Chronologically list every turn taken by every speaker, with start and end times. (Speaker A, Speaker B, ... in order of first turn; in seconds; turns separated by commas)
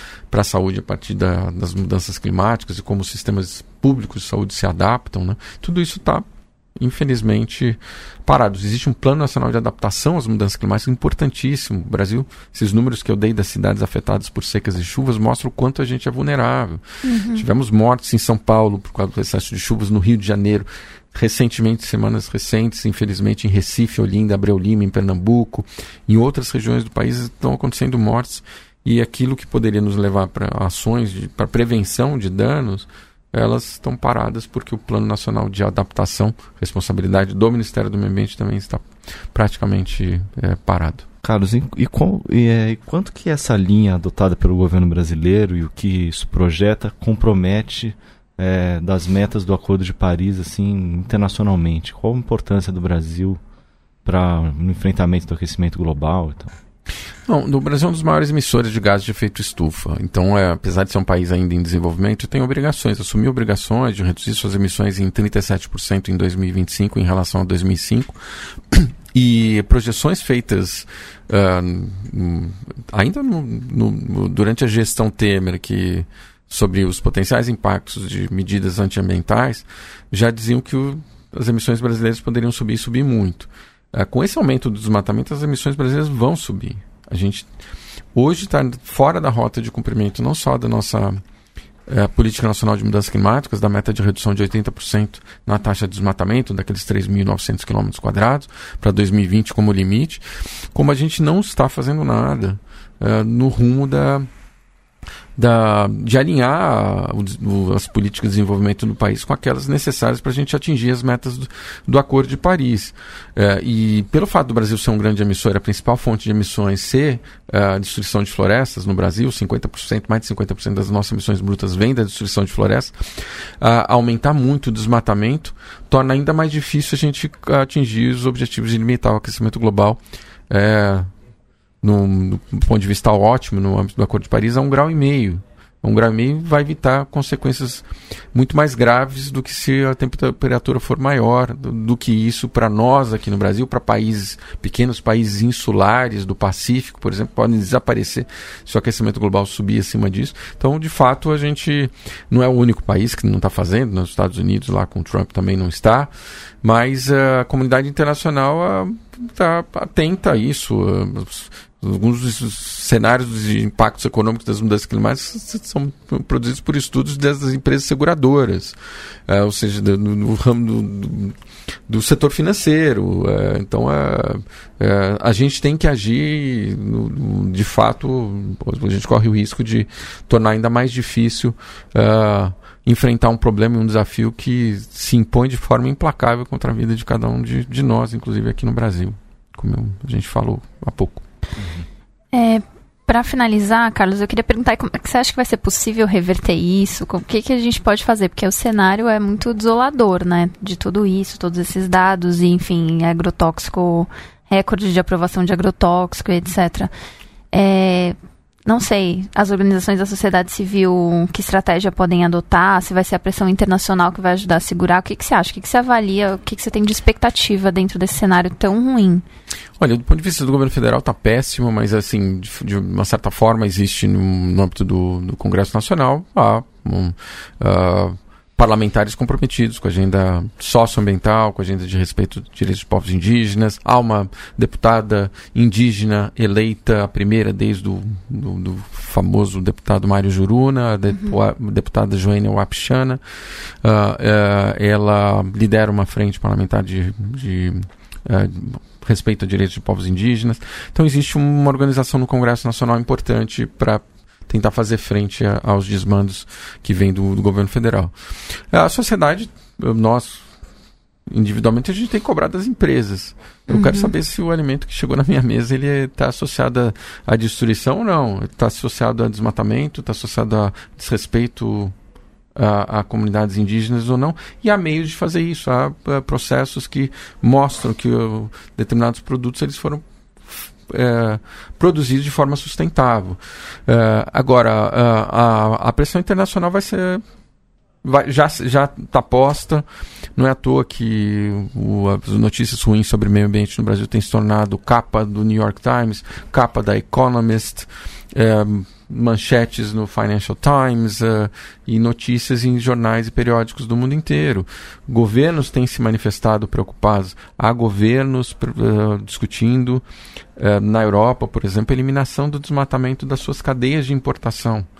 Speaker A: 0.3-6.2, Speaker A: 6.8-16.8, Speaker B: 17.0-17.4, Speaker A: 17.3-41.1, Speaker C: 41.2-53.4, Speaker C: 54.0-56.6, Speaker A: 57.3-68.2, Speaker A: 68.7-87.5, Speaker A: 88.1-91.2, Speaker A: 91.9-100.2, Speaker A: 100.7-104.3, Speaker A: 105.4-131.1, Speaker A: 131.8-156.1, Speaker A: 156.6-168.8, Speaker A: 169.3-171.3, Speaker A: 171.9-191.2, Speaker C: 191.6-191.8, Speaker B: 192.3-206.9, Speaker B: 207.5-219.2, Speaker A: 219.8-260.4, Speaker B: 241.1-241.4, Speaker A: 261.3-271.9, Speaker B: 263.7-264.1, Speaker A: 272.6-287.2, Speaker A: 288.0-289.8, Speaker A: 290.4-310.0, Speaker A: 310.6-314.9